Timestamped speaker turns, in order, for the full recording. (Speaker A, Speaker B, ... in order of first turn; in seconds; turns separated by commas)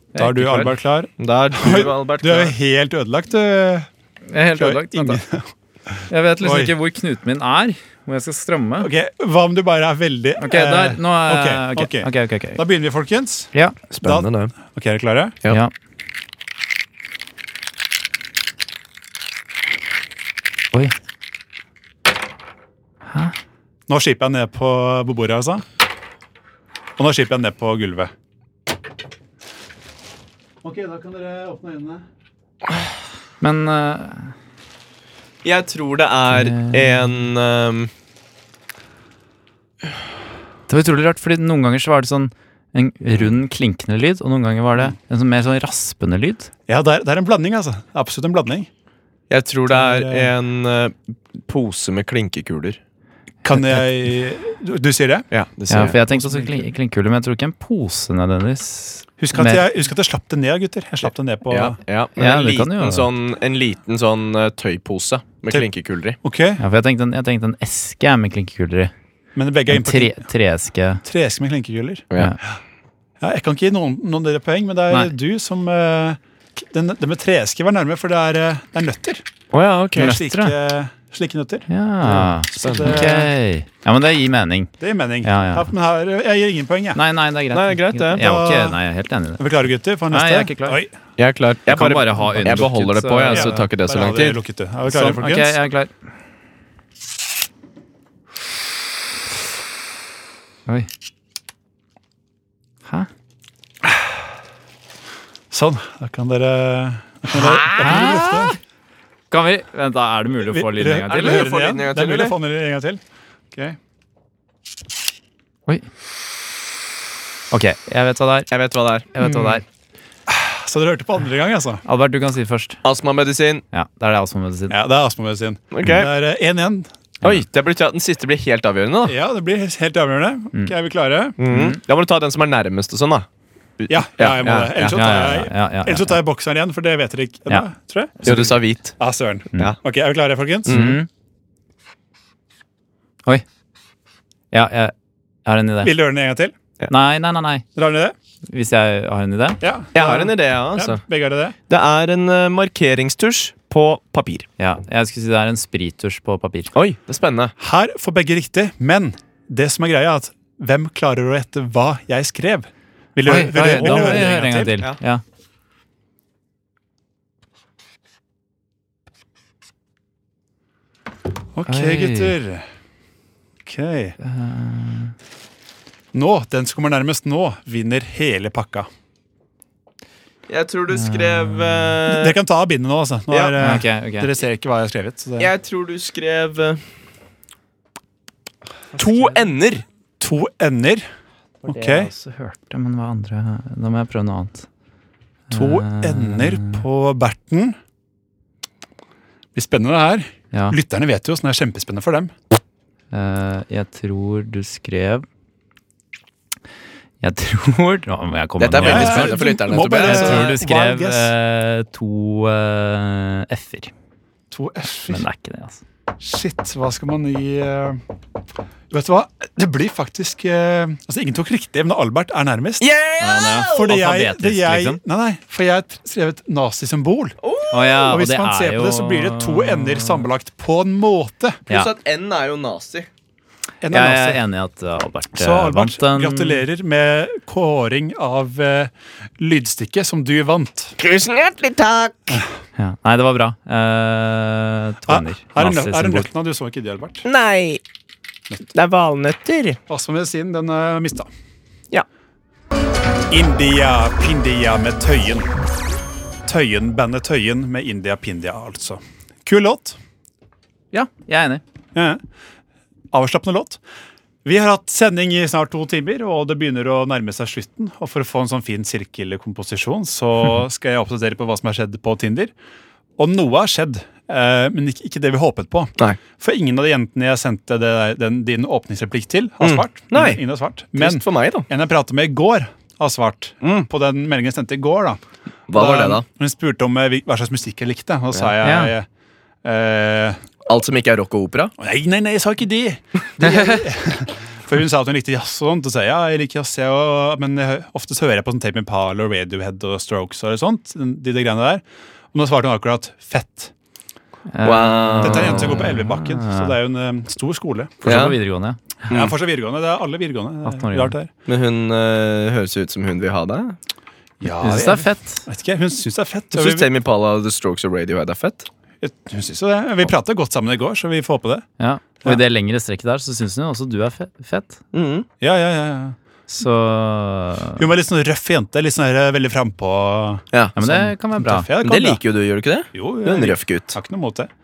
Speaker A: 0.1-0.8, Speaker B: 0.1-3.9, Speaker C: 1.2-2.5, Speaker A: 4.3-5.2, Speaker B: 4.5-6.7, Speaker A: 6.1-8.9, Speaker B: 8.8-15.4, Speaker A: 10.4-12.6, Speaker C: 13.9-14.5, Speaker A: 23.1-23.3, Speaker B: 23.9-25.6, Speaker B: 27.0-28.1, Speaker B: 30.6-32.0, Speaker A: 33.4-34.3, Speaker C: 35.4-37.9, Speaker A: 36.3-37.2, Speaker A: 40.7-46.5, Speaker B: 46.7-48.7, Speaker C: 49.3-52.8, Speaker B: 49.7-50.3, Speaker B: 53.4-55.3, Speaker C: 55.3-56.0, Speaker A: 55.7-59.6, Speaker B: 56.0-56.7, Speaker B: 59.2-61.8, Speaker C: 61.5-66.2, Speaker A: 62.2-63.1, Speaker B: 66.2-66.6, Speaker A: 66.6-68.9, Speaker B: 69.3-70.3, Speaker A: 69.7-71.0, Speaker B: 71.0-72.0, Speaker B: 73.2-79.2, Speaker C: 79.5-80.2, Speaker A: 80.0-80.5, Speaker B: 80.0-83.3, Speaker A: 81.7-85.7, Speaker C: 82.6-83.0, Speaker B: 84.8-87.0, Speaker A: 86.9-89.4, Speaker C: 87.5-88.2, Speaker B: 88.1-88.8, Speaker B: 89.4-90.9, Speaker A: 90.1-90.8, Speaker C: 91.2-94.4, Speaker A: 91.7-93.7, Speaker B: 93.3-95.6, Speaker A: 94.9-95.9, Speaker B: 103.8-104.2, Speaker B: 105.5-108.5, Speaker A: 107.3-108.5, Speaker A: 109.3-111.5, Speaker B: 110.5-113.0, Speaker C: 111.1-112.3, Speaker A: 117.5-118.5, Speaker C: 118.5-119.1, Speaker A: 119.1-119.6, Speaker B: 119.2-119.6, Speaker B: 120.3-121.8, Speaker A: 121.8-122.8, Speaker C: 122.8-123.6, Speaker A: 123.7-124.7, Speaker B: 124.7-126.9, Speaker C: 125.7-126.1, Speaker C: 127.2-129.2, Speaker B: 129.0-131.4, Speaker C: 131.4-133.2, Speaker A: 131.5-131.8, Speaker C: 133.8-135.1, Speaker B: 133.9-138.5, Speaker A: 134.9-136.2, Speaker A: 138.2-138.5, Speaker C: 138.2-138.9, Speaker B: 139.0-140.9, Speaker C: 140.7-141.0, Speaker A: 140.7-141.1, Speaker A: 144.5-144.9, Speaker A: 145.4-145.9, Speaker B: 145.8-146.5, Speaker A: 146.9-147.6, Speaker B: 147.7-148.1, Speaker A: 148.5-149.6, Speaker B: 149.6-151.5, Speaker C: 149.9-151.0, Speaker C: 151.7-154.4, Speaker A: 154.6-156.7, Speaker C: 156.7-157.5, Speaker B: 157.6-164.7, Speaker A: 163.2-165.2, Speaker C: 163.7-164.9, Speaker B: 171.5-172.7, Speaker A: 171.7-172.3, Speaker B: 173.6-174.2, Speaker A: 174.2-175.1, Speaker B: 176.1-178.9, Speaker C: 180.5-182.3, Speaker A: 180.9-181.9, Speaker B: 182.1-185.5, Speaker C: 183.3-183.5, Speaker A: 183.6-184.3, Speaker C: 185.4-186.8, Speaker C: 189.0-189.8, Speaker B: 190.2-191.0, Speaker A: 191.6-194.7, Speaker B: 191.6-192.1, Speaker A: 195.5-196.8, Speaker B: 195.5-197.8, Speaker B: 199.5-202.3, Speaker A: 200.5-200.8, Speaker A: 203.1-205.2, Speaker A: 207.2-213.9, Speaker C: 208.6-210.6, Speaker B: 208.8-211.3, Speaker B: 214.5-215.2, Speaker A: 215.1-215.8, Speaker B: 216.2-218.0, Speaker B: 218.9-222.9, Speaker C: 222.8-223.9, Speaker A: 223.2-225.0, Speaker B: 223.7-227.4, Speaker C: 227.4-228.1, Speaker A: 227.7-230.3, Speaker B: 228.0-231.6, Speaker C: 231.7-233.1, Speaker B: 233.8-234.4, Speaker A: 233.9-236.6, Speaker B: 235.3-240.9, Speaker C: 241.0-242.4, Speaker A: 242.8-246.3, Speaker B: 245.1-247.2, Speaker C: 247.2-247.8, Speaker C: 248.7-249.8, Speaker B: 249.9-251.3, Speaker B: 253.3-255.5, Speaker B: 256.4-260.0, Speaker A: 260.9-261.6, Speaker B: 261.9-262.2, Speaker B: 263.1-263.8, Speaker B: 264.4-272.5, Speaker B: 273.2-289.1, Speaker C: 279.6-280.4, Speaker C: 280.9-281.7, Speaker C: 283.6-283.9, Speaker C: 285.7-286.2, Speaker A: 288.6-288.9, Speaker B: 289.6-290.4, Speaker C: 290.7-291.7, Speaker B: 291.8-301.8, Speaker B: 302.3-303.7, Speaker A: 304.5-306.7, Speaker C: 304.6-305.9, Speaker B: 305.2-308.2, Speaker C: 308.0-308.4, Speaker A: 308.0-308.8, Speaker B: 309.1-311.3, Speaker A: 310.6-311.1, Speaker C: 311.5-313.8, Speaker B: 314.4-316.9, Speaker A: 314.6-315.4, Speaker C: 316.5-318.7, Speaker B: 319.0-321.6, Speaker A: 321.8-324.8, Speaker C: 324.9-325.3, Speaker B: 325.4-326.1, Speaker A: 326.5-327.8, Speaker B: 327.8-332.2, Speaker A: 330.8-331.7, Speaker C: 331.8-334.0, Speaker B: 332.9-334.5